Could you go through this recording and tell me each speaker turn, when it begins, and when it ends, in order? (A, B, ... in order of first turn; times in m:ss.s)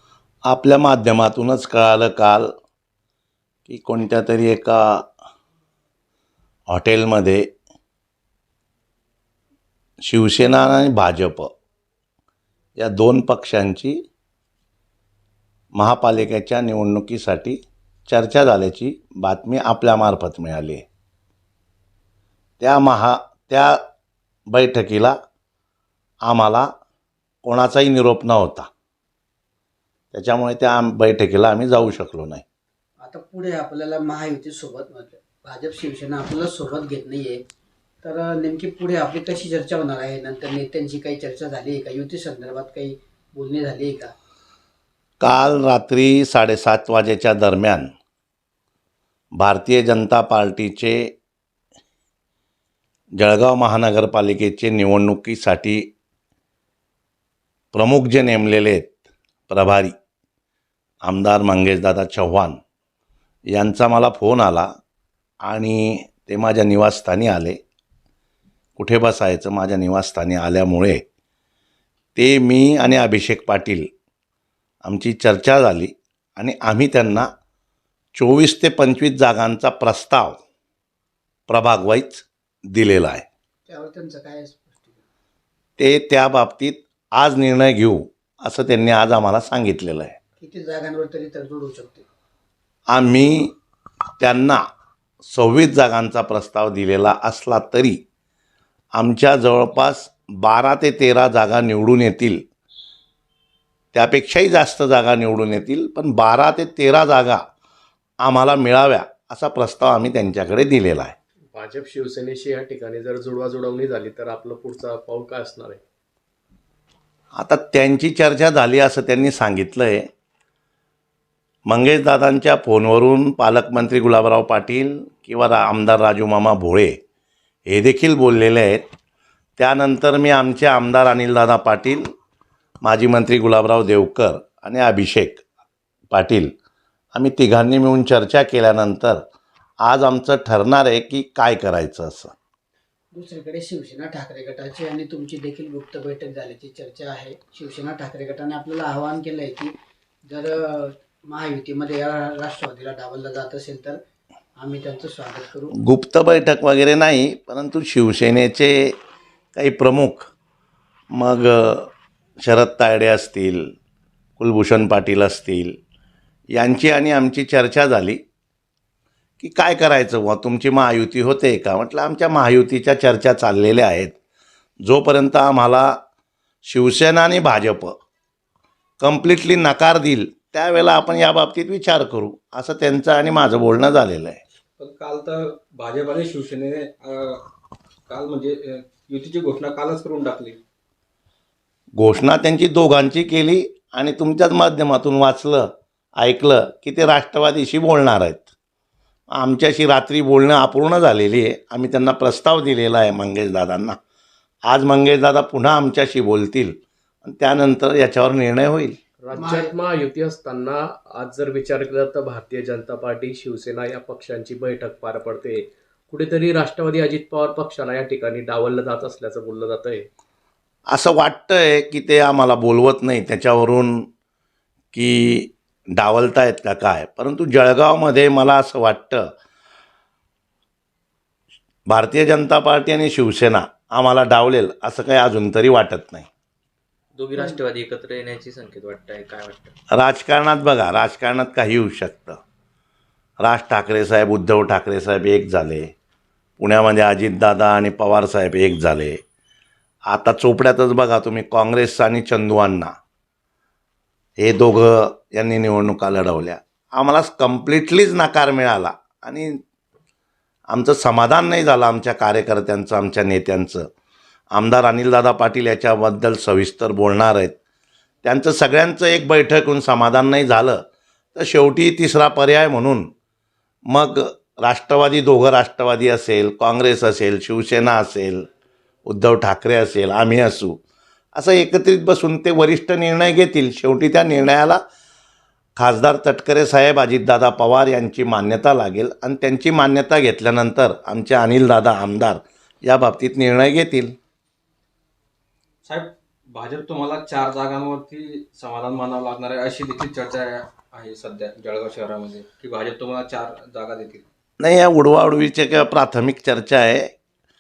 0:00.5-0:02.5 A
0:03.7-0:05.1 A
0:06.7-0:07.5 A
0:10.0-0:11.5 A
0:12.8-0:14.0 A
0:15.7-0:20.8 A
0:22.6-0:23.8 A
0:24.5-0:25.1 A
0:26.2-0:26.7 A
0:27.4-0:28.7 A
0:30.1-0:32.4 A
0:33.0-0:37.4 B
0:38.0-0:44.1 B
0:45.2-0:47.9 A
0:49.4-0:51.1 A
0:53.2-0:55.9 A
0:57.7-0:59.0 A
0:59.5-0:59.9 A
1:01.0-1:02.6 A
1:03.5-1:04.7 A
1:05.4-1:07.6 A
1:08.8-1:11.0 A
1:12.2-1:13.9 A
1:14.8-1:17.3 A
1:18.1-1:20.4 A
1:21.5-1:23.2 A
1:23.7-1:25.0 B
1:25.8-1:30.1 A
1:30.4-1:32.0 B
1:32.9-1:33.6 A
1:34.2-1:34.6 A
1:35.2-1:38.0 A
1:39.0-1:42.4 A
1:43.9-1:47.4 A
1:48.2-1:51.1 A
1:51.5-1:55.8 C
1:57.3-2:00.0 A
2:01.7-2:06.9 A
2:07.7-2:08.8 A
2:09.6-2:12.0 A
2:12.8-2:15.4 A
2:16.1-2:16.5 A
2:17.1-2:19.2 A
2:19.8-2:22.3 A
2:23.1-2:29.7 B
2:30.3-2:34.0 B
2:34.6-2:35.7 B
2:35.7-2:38.9 A
2:39.5-2:40.3 A
2:41.1-2:41.9 A
2:42.4-2:43.6 A
2:44.4-2:45.8 A
2:46.5-2:48.2 A
2:49.4-2:54.1 A
2:54.8-2:56.0 A
2:56.6-2:57.9 A
2:59.0-3:04.4 A
3:04.8-3:07.4 D
3:08.1-3:10.6 D
3:12.0-3:18.5 A
3:19.3-3:24.0 A
3:24.7-3:29.0 A
3:29.2-3:40.1 C
3:29.3-3:29.7 B
3:40.9-3:44.0 A
3:44.9-3:49.3 A
3:51.9-3:56.3 A
3:57.2-3:59.7 E
3:59.9-4:02.4 A
4:03.4-4:05.9 A
4:06.6-4:09.2 A
4:10.1-4:12.9 A
4:14.4-4:19.6 A
4:20.7-4:23.9 A
4:24.5-4:27.6 A
4:28.2-4:30.8 A
4:31.3-4:33.1 A
4:33.9-4:38.5 A
4:39.0-4:40.8 A
4:41.3-4:44.8 A
4:45.8-4:54.1 A
4:55.8-5:04.2 D
5:04.6-5:07.1 A